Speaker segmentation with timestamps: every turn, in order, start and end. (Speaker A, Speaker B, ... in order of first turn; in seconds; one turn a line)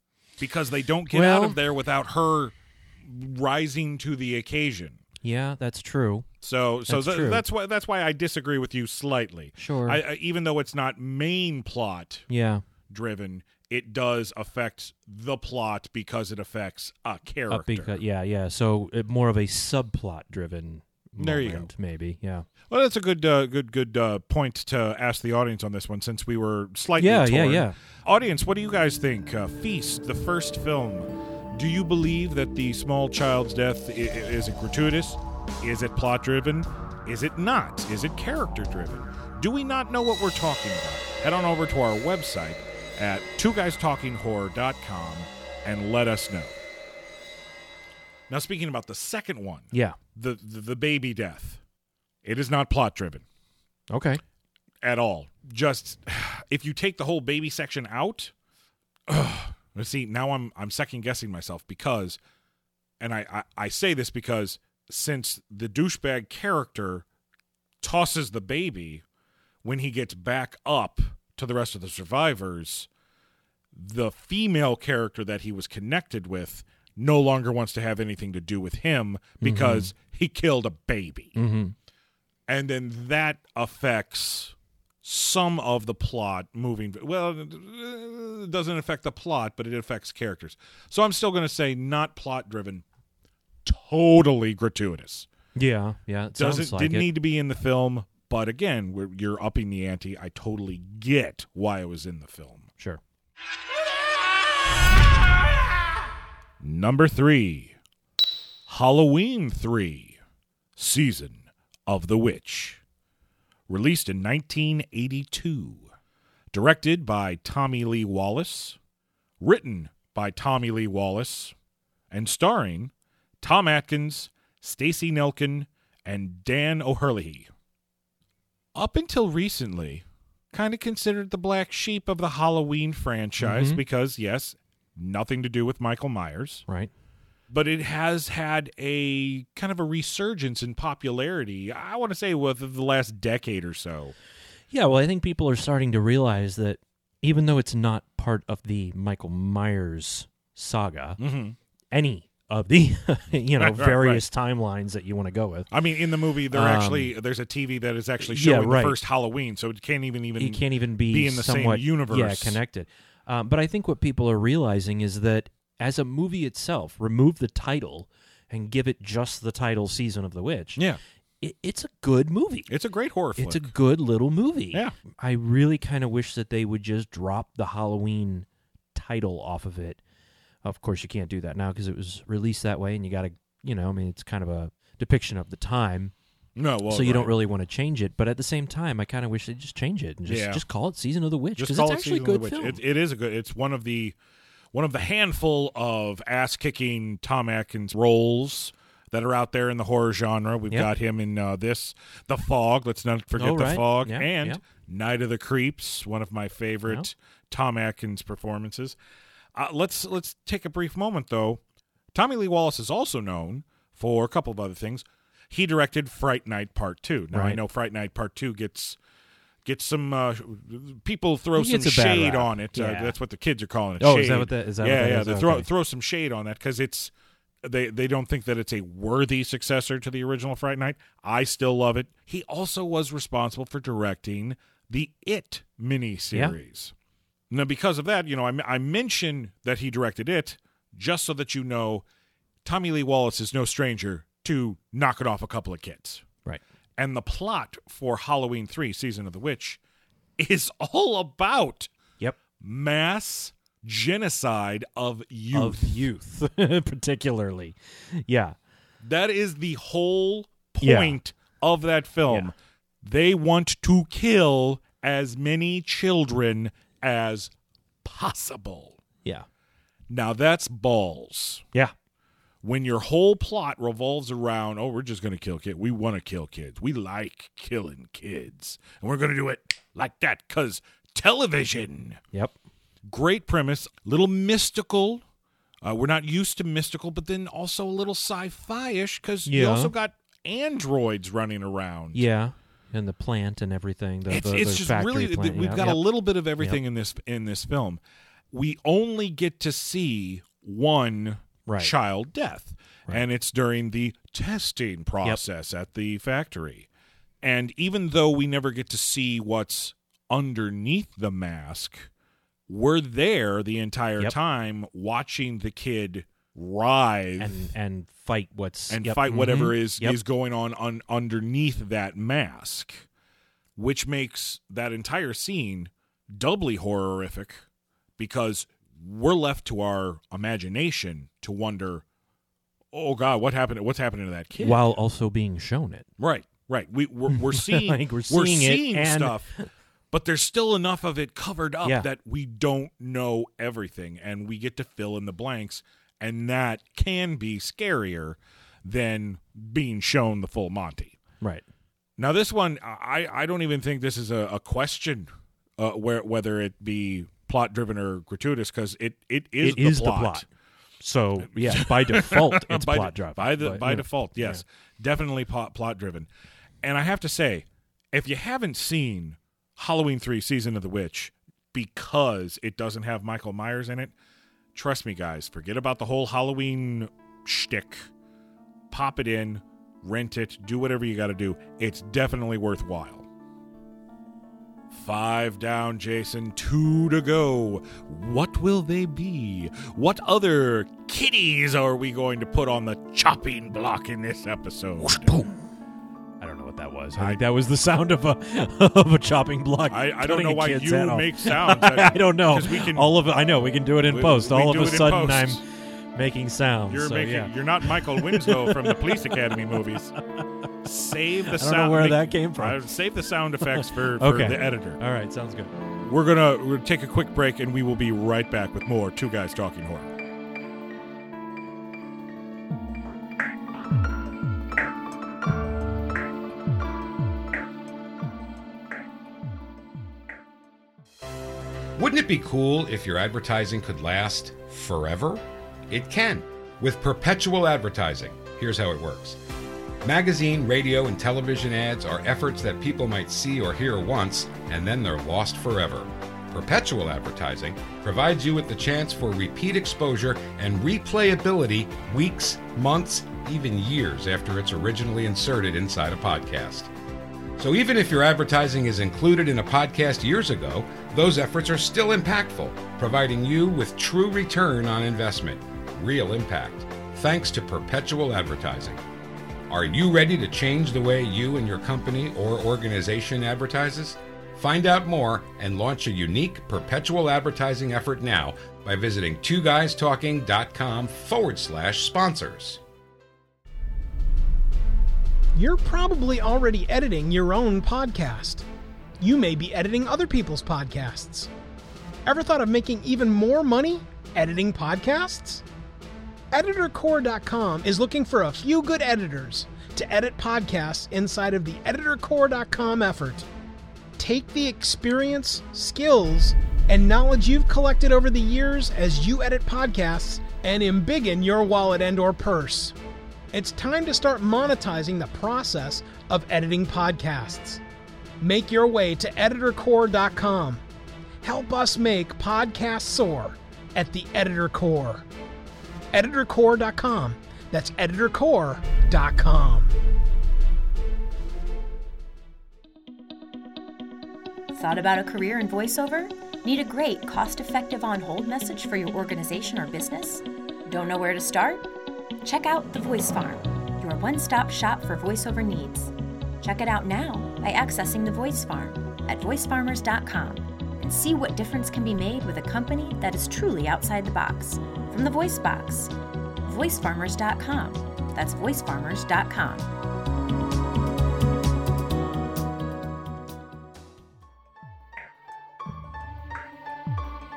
Speaker A: 0.4-5.0
Speaker B: 1.1-1.6
Speaker B: 5.2-6.3
Speaker A: 6.4-12.3
Speaker B: 6.9-7.4
Speaker B: 9.6-10.0
Speaker B: 12.3-12.6
Speaker A: 12.9-18.0
Speaker B: 17.5-22.5
Speaker A: 21.2-21.7
Speaker A: 22.7-46.6
Speaker B: 27.0-27.8
Speaker A: 48.3-51.6
Speaker A: 52.2-53.2
Speaker B: 53.9-54.2
Speaker A: 54.8-58.3
Speaker A: 59.1-62.2
Speaker A: 63.0-67.0
Speaker A: 67.8-69.0
Speaker A: 69.6-72.9
Speaker A: 73.7-81.4
Speaker B: 79.4-79.9
Speaker B: 81.4-81.8
Speaker A: 82.5-92.8
Speaker A: 93.7-95.3
Speaker B: 95.6-97.1
Speaker A: 96.4-102.7
Speaker A: 106.6-107.8
Speaker A: 108.7-110.2
Speaker A: 110.8-112.8
Speaker A: 113.7-115.9
Speaker A: 116.5-118.8
Speaker A: 119.4-121.5
Speaker A: 122.1-127.5
Speaker A: 128.8-136.7
Speaker B: 133.4-133.8
Speaker A: 137.5-144.1
Speaker B: 144.7-151.2
Speaker A: 151.2-151.6
Speaker B: 151.9-155.7
Speaker A: 153.6-154.2
Speaker A: 155.7-162.6
Speaker B: 156.5-157.1
Speaker B: 158.2-159.0
Speaker B: 160.4-170.8
Speaker B: 171.4-172.7
Speaker A: 172.7-173.7
Speaker B: 173.4-180.0
Speaker B: 180.6-186.1
Speaker A: 186.6-187.3
Speaker B: 186.9-192.8
Speaker A: 190.3-190.6
Speaker A: 191.6-194.2
Speaker A: 194.7-209.0
Speaker B: 203.3-204.6
Speaker A: 209.6-211.6
Speaker A: 212.1-219.0
Speaker B: 217.3-217.6
Speaker A: 219.7-227.1
Speaker B: 221.6-223.2
Speaker B: 224.0-225.7
Speaker A: 227.6-236.9
Speaker A: 237.5-242.1
Speaker A: 242.6-246.2
Speaker A: 247.0-249.8
Speaker A: 250.4-251.9
Speaker A: 252.6-256.1
Speaker B: 255.5-258.6
Speaker A: 259.0-267.5
Speaker B: 260.8-261.2
Speaker A: 268.0-269.0
Speaker A: 270.1-271.6
Speaker A: 272.6-282.2
Speaker A: 283.1-285.2
Speaker A: 285.8-292.2
Speaker B: 289.5-289.9
Speaker B: 292.1-296.0
Speaker A: 294.3-298.0
Speaker A: 298.5-306.9
Speaker B: 301.6-301.9
Speaker A: 307.4-312.1
Speaker A: 312.7-317.7
Speaker B: 317.4-320.2
Speaker A: 318.9-323.1
Speaker A: 323.8-327.6
Speaker A: 328.2-332.0
Speaker A: 332.9-334.8
Speaker B: 334.6-336.1
Speaker A: 336.2-339.5
Speaker B: 337.3-339.7
Speaker A: 340.1-351.2
Speaker A: 352.2-360.5
Speaker B: 359.6-360.5
Speaker B: 361.0-364.6
Speaker A: 361.4-366.3
Speaker A: 366.8-374.1
Speaker A: 374.7-378.1
Speaker A: 378.9-383.3
Speaker A: 384.9-395.3
Speaker B: 395.0-395.6
Speaker B: 396.4-405.6
Speaker A: 399.9-403.2
Speaker A: 404.1-405.6
Speaker B: 406.1-409.6
Speaker A: 406.9-410.1
Speaker A: 410.8-415.0
Speaker B: 411.5-412.8
Speaker B: 413.6-415.8
Speaker A: 416.0-420.1
Speaker C: 432.0-439.4
Speaker C: 440.0-456.9
Speaker C: 457.6-469.0
Speaker C: 469.7-482.8
Speaker D: 485.6-488.7
Speaker D: 489.2-491.5
Speaker D: 492.3-495.6
Speaker D: 496.5-503.5
Speaker D: 504.2-513.0
Speaker D: 513.5-517.8
Speaker D: 518.4-520.8
Speaker D: 521.4-525.3
Speaker D: 526.1-529.9
Speaker E: 534.7-541.9
Speaker E: 542.4-556.1
Speaker E: 556.7-559.9